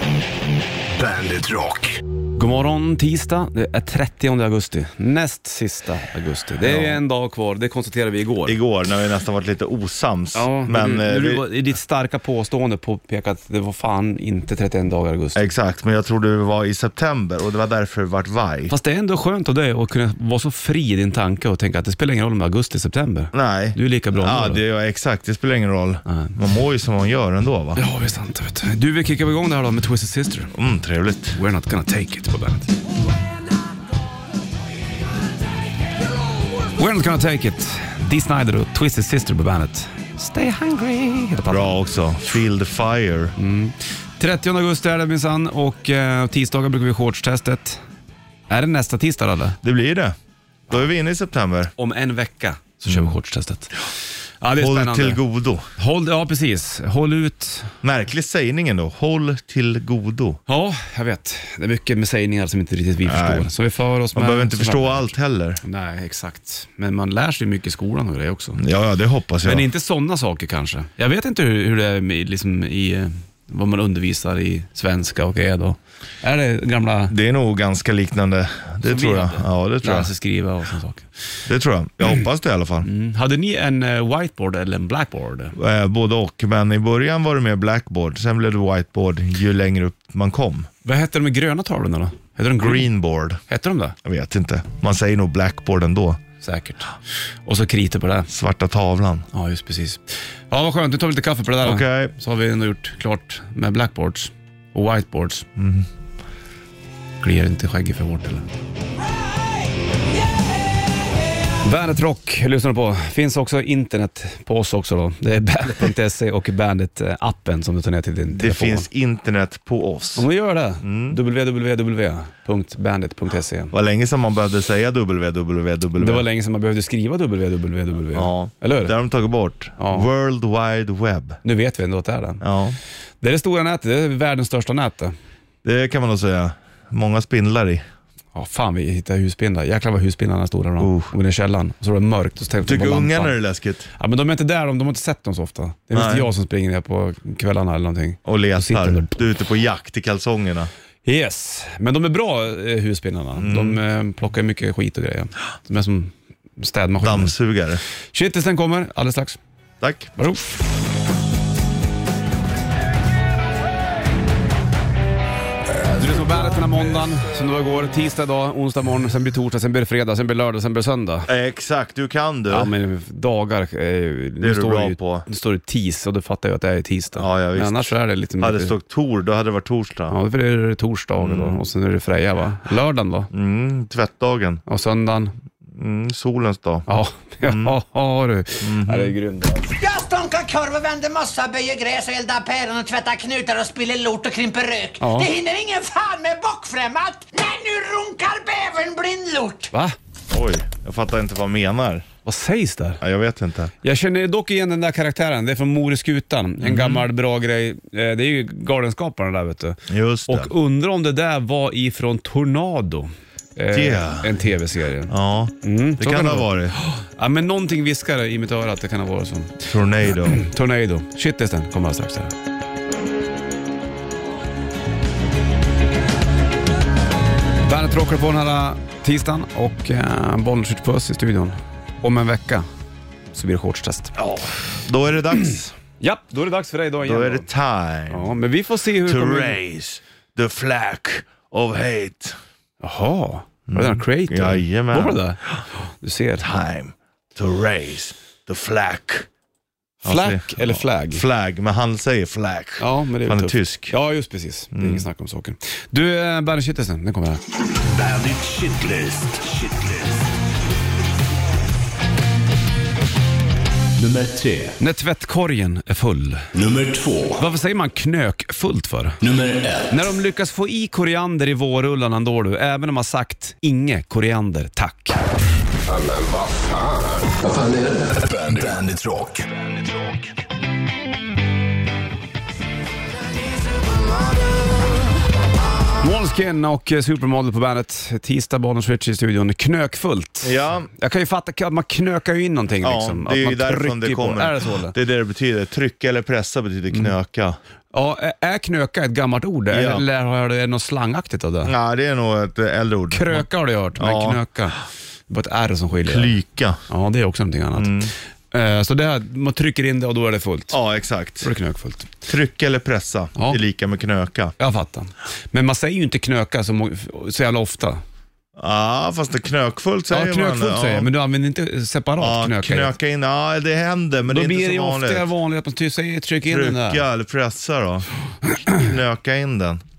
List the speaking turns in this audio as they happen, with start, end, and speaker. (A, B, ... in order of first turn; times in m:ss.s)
0:00.9-0:02.0 A
0:02.4-0:08.6 B
0:06.6-0:07.0 C
0:08.4-0:11.4 C
0:10.3-0:15.5 B
0:15.3-0:18.7 C
0:18.7-0:24.6 B
0:23.3-0:27.8 C
0:26.0-0:26.3 B
0:27.8-0:30.5 B
0:30.5-0:31.4 C
0:31.3-0:32.7 B
0:36.7-0:41.7 B
0:41.4-0:43.3 C
0:43.4-0:47.8 B
0:48.5-0:49.6 B
0:49.6-0:50.1 C
0:50.7-0:51.7 C
0:51.8-0:53.8 B
0:54.4-0:55.2 B
0:54.6-0:55.7 C
0:55.8-0:57.7 B
0:57.8-1:00.4 C
1:00.5-1:08.6 B
1:03.0-1:03.5 C
1:04.1-1:05.6 C
1:08.6-1:09.7 C
1:09.4-1:17.1 B
1:17.1-1:20.1 C
1:18.8-1:21.1 B
1:21.5-1:22.9 C
1:22.8-1:25.5 B
1:25.5-1:30.7 C
1:30.8-1:32.9 B
1:32.6-1:33.4 C
1:33.5-1:33.9 B
1:34.0-1:36.2 C
1:36.4-1:36.9 B
1:37.4-1:38.3 B
1:38.3-1:39.2 C
1:39.3-1:45.4 B
1:41.6-1:42.1 C
1:45.6-1:45.9 C
1:47.2-1:48.4 B
1:51.6-1:58.9 B
1:58.4-2:00.3 C
2:00.2-2:03.7 B
2:00.8-2:01.2 C
2:03.7-2:06.2 C
2:06.0-2:08.9 B
2:08.1-2:11.4 C
2:09.8-2:10.1 B
2:11.4-2:12.4 B
2:12.4-2:12.8 C
2:13.2-2:15.1 B
2:15.6-2:17.8 C
2:18.3-2:23.4 B
2:20.8-2:21.1 C
2:22.6-2:23.9 C
2:24.0-2:29.2 B
2:25.9-2:26.3 C
2:28.2-2:30.7 C
2:31.0-2:37.3 B
2:33.3-2:33.8 C
2:37.0-2:37.8 C
2:38.1-2:39.4 B
2:39.8-2:40.1 C
2:40.2-2:40.5 B
2:45.9-2:51.3 B
2:51.3-2:52.7 C
2:52.5-2:58.8 B
2:54.4-2:55.3 C
2:57.1-3:00.2 C
3:00.1-3:03.3 B
3:01.2-3:01.6 C
3:03.3-3:04.6 C
3:04.7-3:05.3 B
3:05.7-3:06.9 C
3:06.9-3:09.7 B
3:07.4-3:07.7 C
3:08.6-3:09.1 C
3:09.7-3:19.7 D
3:15.0-3:15.3 B
3:20.3-3:22.0 C
3:22.2-3:23.0 B
3:23.0-3:23.7 C
3:23.8-3:42.3 B
3:26.6-3:27.1 C
3:29.9-3:30.5 C
3:33.7-3:34.3 C
3:35.1-3:36.8 C
3:39.7-3:40.4 C
3:47.6-3:52.6 B
3:53.3-3:54.1 B
3:54.2-3:55.8 C
3:56.0-3:57.5 B
3:57.0-3:58.3 C
3:58.1-3:59.6 B
3:59.0-4:02.4 C
4:02.8-4:06.5 B
4:03.7-4:05.6 C
4:06.4-4:09.3 C
4:10.0-4:13.9 C
4:10.0-4:11.2 B
4:12.8-4:17.4 B
4:14.7-4:15.0 C
4:17.8-4:20.2 A
4:24.0-4:24.8 A
4:24.8-4:26.5 B
4:26.5-4:27.4 A
4:27.4-4:29.2 B
4:29.2-4:30.0 A
4:29.9-4:35.2 B
4:35.9-4:37.9 B
4:37.5-4:40.3 A
4:46.0-4:54.9 B
4:50.4-4:50.9 C
4:52.8-4:57.6 C
4:57.9-5:01.7 B
4:59.7-5:00.0 C
5:01.6-5:04.4 C
5:03.1-5:06.4 B
5:06.0-5:06.8 C
5:06.9-5:10.8 B
5:07.8-5:08.1 C
5:10.7-5:11.5 C
5:11.4-5:12.2 B
5:12.2-5:14.5 C
5:13.4-5:13.6 B
5:14.6-5:18.0 B
5:18.6-5:21.1 C
5:20.1-5:22.9 B
5:22.2-5:25.3 C
5:24.3-5:27.0 B
5:26.5-5:28.1 C
5:28.5-5:28.8 B
5:28.7-5:29.8 C